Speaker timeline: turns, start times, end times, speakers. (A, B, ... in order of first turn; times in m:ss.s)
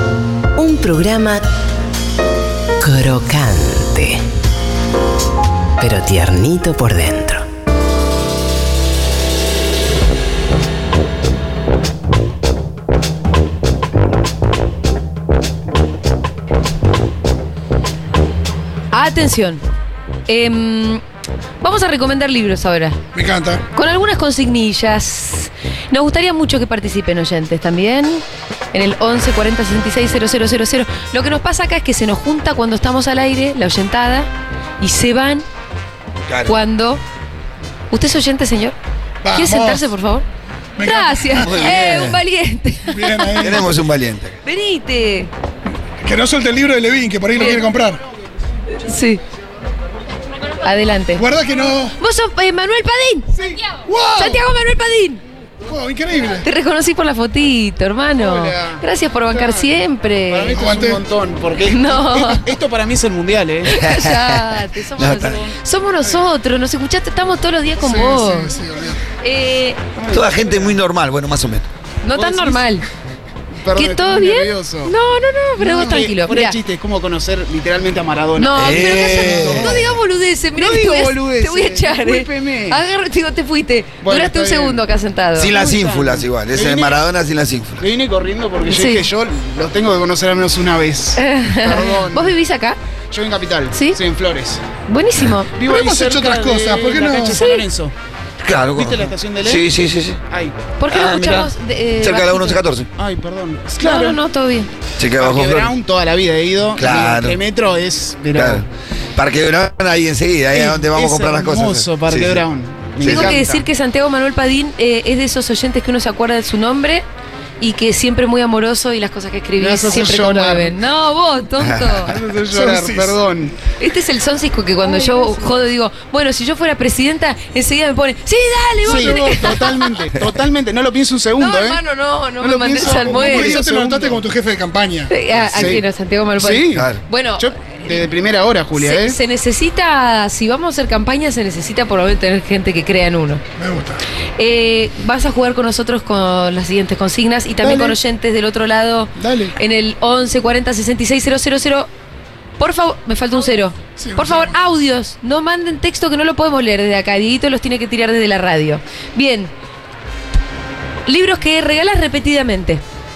0:00.6-0:01.4 A
0:02.8-0:04.2 A
0:05.8-0:07.4 A
0:18.9-0:19.6 B
0:20.3-0:21.0 B
0:21.6-0:23.0 B
0:23.1-0:23.6 C
0:23.7-0:28.2 B
0:28.7-0:35.4 B
0:36.3-0:36.5 D
0:36.5-0:37.0 B
0:37.9-0:38.8 B
0:39.2-0:39.8 C
0:39.3-0:40.2 B
0:40.8-0:41.7 C
0:40.8-0:43.6 B
0:41.3-0:42.2 D
0:42.9-0:43.7 C
0:43.4-0:44.4 D
0:44.4-0:45.3 B
0:46.0-0:48.0 C
0:47.4-0:47.6 B
0:48.7-0:49.2 B
0:50.6-0:51.2 B
0:51.2-0:52.0 C
0:52.0-0:53.3 B
0:53.4-0:54.4 C
0:54.2-0:55.2 B
0:55.6-0:56.4 C
0:56.4-1:00.6 B
0:58.2-0:59.7 E
1:00.3-1:03.7 E
1:00.5-1:01.0 C
1:01.6-1:02.5 B
1:03.7-1:08.6 B
1:03.7-1:04.4 D
1:05.0-1:05.4 D
1:05.0-1:05.6 E
1:07.8-1:09.0 C
1:09.2-1:09.8 B
1:10.0-1:10.8 E
1:10.1-1:11.7 D
1:12.0-1:12.8 B
1:12.1-1:12.6 E
1:13.6-1:14.9 E
1:13.8-1:16.6 B
1:15.6-1:20.0 E
1:18.4-1:25.5 B
1:18.5-1:19.7 D
1:20.6-1:22.8 E
1:24.0-1:24.8 E
1:25.4-1:27.8 D
1:25.5-1:27.0 E
1:27.8-1:32.3 E
1:28.6-1:29.1 B
1:31.2-1:32.8 B
1:33.1-1:34.6 E
1:33.7-1:34.0 B
1:34.9-1:35.5 B
1:35.5-1:37.9 E
1:35.6-1:37.4 C
1:37.3-1:37.6 B
1:38.4-1:40.2 D
1:38.7-1:39.7 E
1:40.3-1:41.4 E
1:40.8-1:42.6 B
1:40.9-1:42.9 D
1:43.0-1:44.2 E
1:43.8-1:44.7 B
1:45.0-1:45.7 D
1:45.2-1:48.6 E
1:46.8-1:47.4 D
1:48.3-1:48.6 D
1:49.2-1:52.4 D
1:50.5-1:53.7 E
1:53.0-1:53.4 D
1:53.0-1:57.0 B
1:57.6-2:02.1 B
1:59.6-2:00.7 E
2:01.6-2:02.1 D
2:02.1-2:03.5 E
2:02.5-2:03.1 C
2:03.8-2:10.0 B
2:04.8-2:05.4 E
2:08.8-2:11.8 E
2:08.9-2:09.5 C
2:11.4-2:13.6 B
2:12.4-2:14.2 E
2:13.0-2:15.1 C
2:15.1-2:18.0 B
2:15.5-2:15.8 E
2:16.4-2:19.2 E
2:16.7-2:17.0 D
2:18.7-2:23.4 B
2:23.6-2:24.0 C
2:24.4-2:31.9 B
2:27.6-2:28.0 E
2:29.2-2:29.5 E
2:32.6-2:39.5 B
2:34.0-2:34.5 C
2:41.1-2:42.8 B